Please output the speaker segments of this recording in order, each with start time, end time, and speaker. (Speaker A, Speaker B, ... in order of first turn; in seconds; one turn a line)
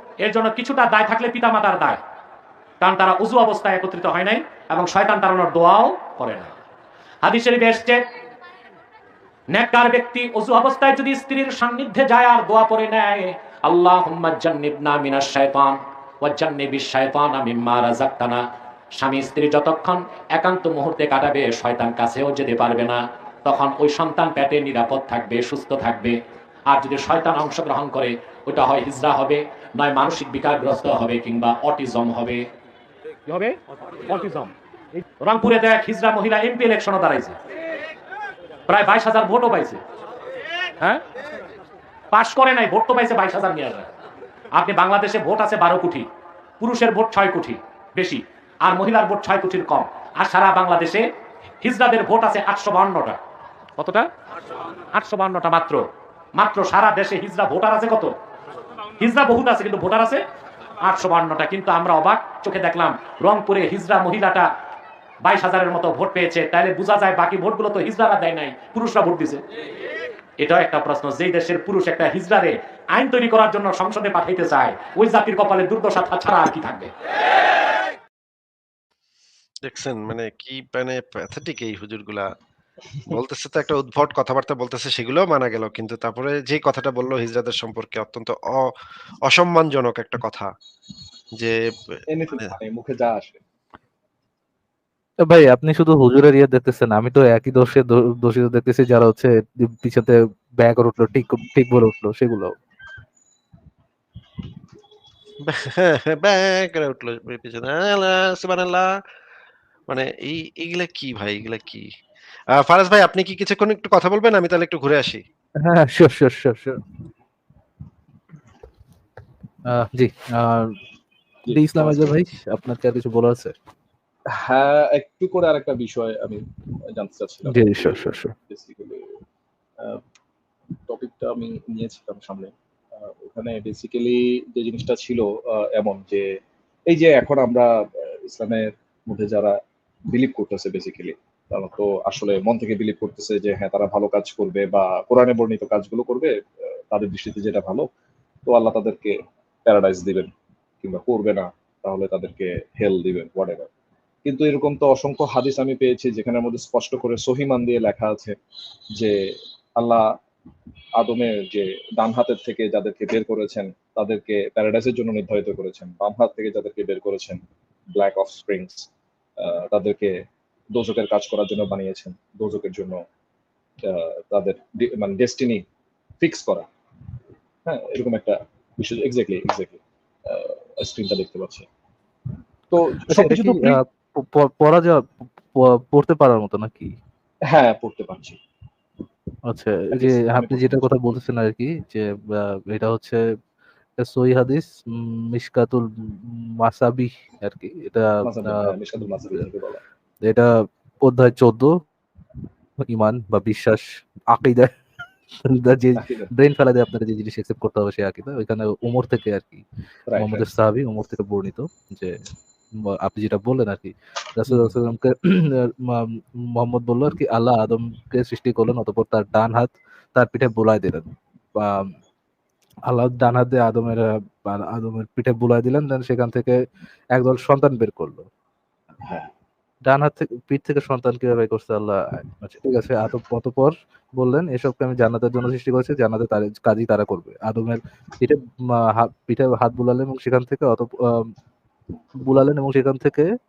Speaker A: 0.2-2.0
Speaker A: 2.8-6.5
Speaker A: 7.2-8.0
Speaker A: 9.5-18.4
Speaker A: 19.0-26.1
Speaker A: 26.7-32.5
Speaker A: 33.3-34.5
Speaker A: 35.2-37.4
Speaker A: 38.7-39.8
Speaker A: 42.1-43.9
Speaker A: 44.5-46.0
Speaker A: 46.6-51.0
Speaker A: 51.6-53.2
Speaker A: 53.8-54.0
Speaker A: 54.9-55.8
Speaker A: 56.4-58.1
Speaker A: 59.0-60.2
Speaker A: 60.8-64.5
Speaker A: 65.2-69.4
Speaker A: 70.4-76.9
Speaker B: 79.7-82.2
Speaker B: 83.1-88.4
Speaker B: 89.3-90.5
Speaker C: 92.1-93.4
Speaker D: 95.2-102.5
Speaker B: 105.5-108.9
Speaker B: 109.9-111.8
Speaker B: 112.6-115.2
Speaker D: 115.6-116.8
Speaker D: 119.7-120.8
Speaker C: 121.5-122.1
Speaker D: 121.5-123.5
Speaker C: 124.4-126.4
Speaker C: 126.9-129.0
Speaker D: 127.5-128.3
Speaker C: 130.9-136.2
Speaker C: 136.9-137.7
Speaker C: 138.2-139.6
Speaker C: 140.1-146.3
Speaker C: 146.9-147.8
Speaker C: 148.4-150.3
Speaker C: 150.8-153.7
Speaker C: 154.2-158.3
Speaker C: 159.0-160.1
Speaker C: 161.0-167.4
Speaker C: 167.9-170.1
Speaker C: 170.7-173.0
Speaker C: 173.8-175.6
Speaker C: 176.2-176.7
Speaker C: 177.7-181.7
Speaker C: 182.7-183.8
Speaker D: 183.0-186.9
Speaker C: 187.5-188.4
Speaker D: 189.5-193.2
Speaker C: 189.9-190.8
Speaker D: 194.0-199.4
Speaker C: 198.2-199.8
Speaker D: 200.2-200.5
Speaker D: 201.0-201.8
Speaker D: 202.8-204.7
Speaker D: 205.5-209.6
Speaker C: 205.9-206.3
Speaker C: 210.1-210.5
Speaker D: 210.1-212.1
Speaker D: 212.8-221.9
Speaker C: 214.5-214.7
Speaker D: 222.9-226.6
Speaker D: 227.1-228.3
Speaker D: 229.8-241.3
Speaker D: 242.2-243.3